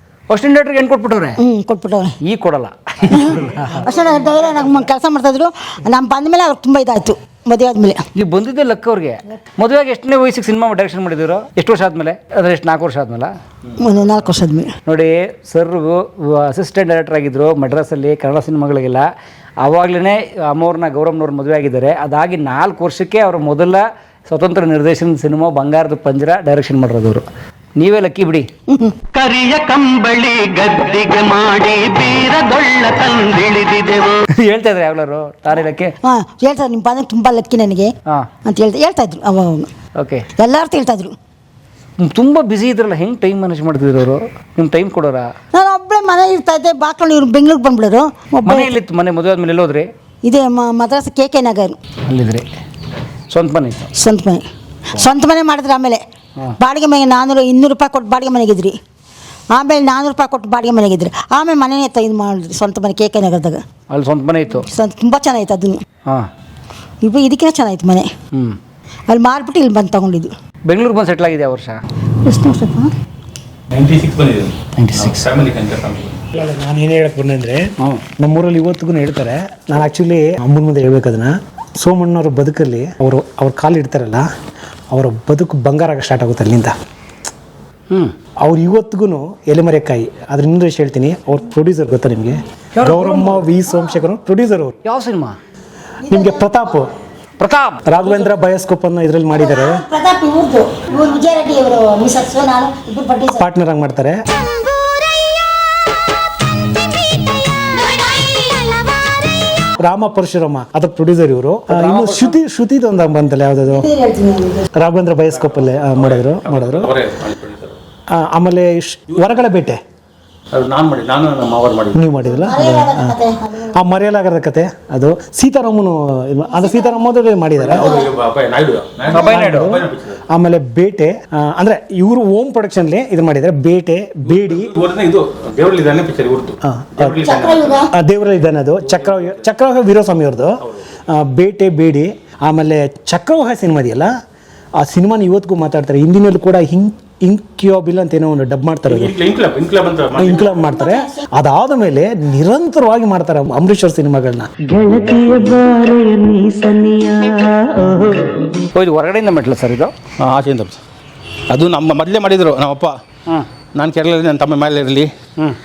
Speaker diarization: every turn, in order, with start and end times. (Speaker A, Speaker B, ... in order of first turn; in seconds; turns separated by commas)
Speaker A: 0.3-1.4, Speaker B: 1.4-2.2, Speaker A: 2.2-3.9, Speaker B: 3.1-8.0, Speaker A: 8.2-13.3, Speaker B: 13.8-14.7, Speaker A: 14.9-19.1, Speaker A: 19.6-27.2, Speaker A: 27.8-28.5, Speaker B: 28.7-29.0, Speaker C: 29.1-34.2, Speaker A: 34.3-36.0, Speaker B: 36.0-37.9, Speaker B: 38.5-39.7, Speaker A: 40.0-40.3, Speaker B: 40.4-41.1, Speaker A: 42.0-45.3, Speaker B: 45.5-48.7, Speaker A: 48.5-49.9, Speaker B: 50.2-51.8, Speaker A: 52.1-52.5, Speaker A: 53.3-53.9, Speaker B: 54.0-56.0, Speaker B: 56.6-58.8, Speaker B: 59.5-63.6, Speaker A: 63.9-64.7, Speaker B: 64.7-65.8, Speaker B: 67.0-68.1, Speaker B: 69.1-70.3, Speaker A: 70.7-71.8, Speaker B: 72.2-73.0, Speaker D: 73.7-76.2, Speaker A: 74.8-75.2, Speaker E: 76.3-84.3, Speaker E: 84.9-86.8, Speaker E: 88.4-94.8, Speaker A: 92.8-93.5, Speaker A: 94.8-95.4, Speaker B: 96.1-96.5, Speaker E: 96.1-96.9, Speaker A: 97.4-97.8, Speaker E: 97.9-99.8, Speaker B: 99.3-103.5, Speaker E: 103.4-104.2, Speaker E: 109.8-113.9, Speaker A: 111.7-112.4, Speaker B: 113.7-114.7, Speaker E: 114.8-116.9, Speaker D: 115.5-117.8, Speaker E: 118.1-119.8, Speaker D: 120.5-122.1, Speaker E: 122.0-123.2, Speaker B: 122.3-123.8, Speaker E: 123.7-128.0, Speaker B: 126.6-126.9, Speaker D: 127.6-130.2, Speaker A: 129.1-129.7, Speaker E: 129.2-134.7, Speaker D: 134.3-137.8, Speaker E: 136.6-137.2, Speaker B: 137.0-137.9, Speaker E: 137.9-144.1, Speaker E: 144.8-149.2, Speaker D: 148.9-150.5, Speaker E: 150.2-154.5, Speaker C: 154.7-158.6, Speaker A: 158.7-159.9, Speaker D: 160.2-160.8, Speaker D: 161.5-162.9, Speaker D: 163.8-165.1